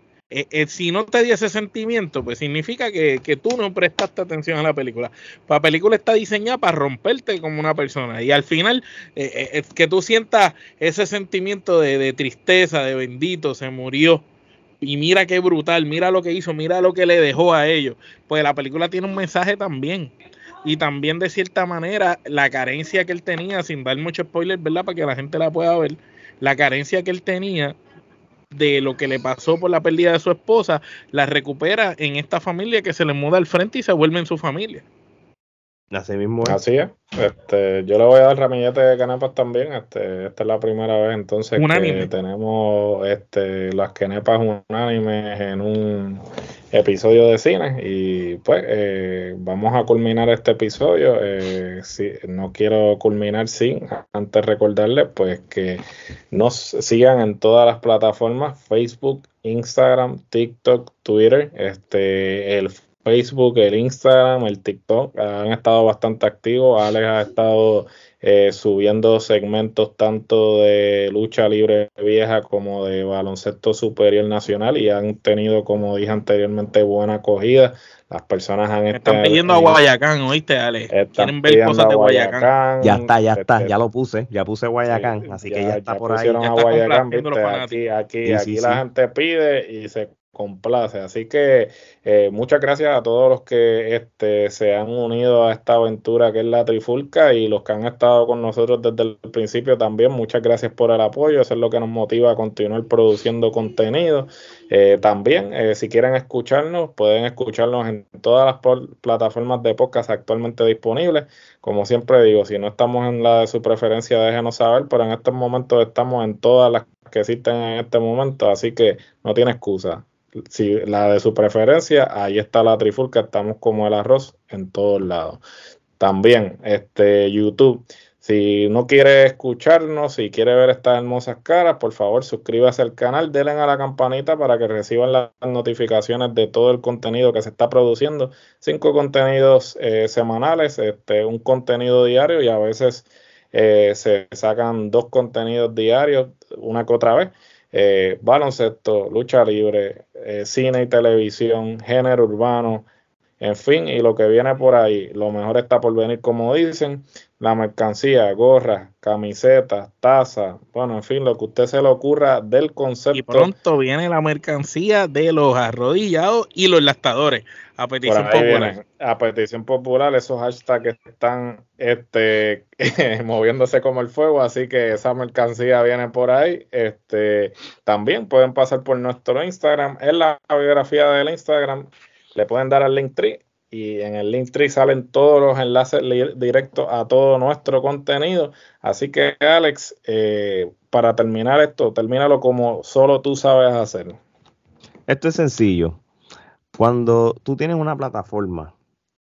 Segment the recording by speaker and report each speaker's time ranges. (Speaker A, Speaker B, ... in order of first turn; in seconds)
Speaker A: 0.3-14.2, 14.8-20.1, 20.6-27.8, 28.5-34.8, 41.6-42.1, 78.9-82.5, 86.4-87.8, 163.1-168.8
Speaker B: 35.9-36.6, 82.8-86.4, 88.2-88.8, 195.1-196.0, 196.7-198.7
Speaker C: 36.4-79.8, 80.9-83.8, 84.9-125.4, 126.0-152.9, 153.4-163.5, 168.0-194.2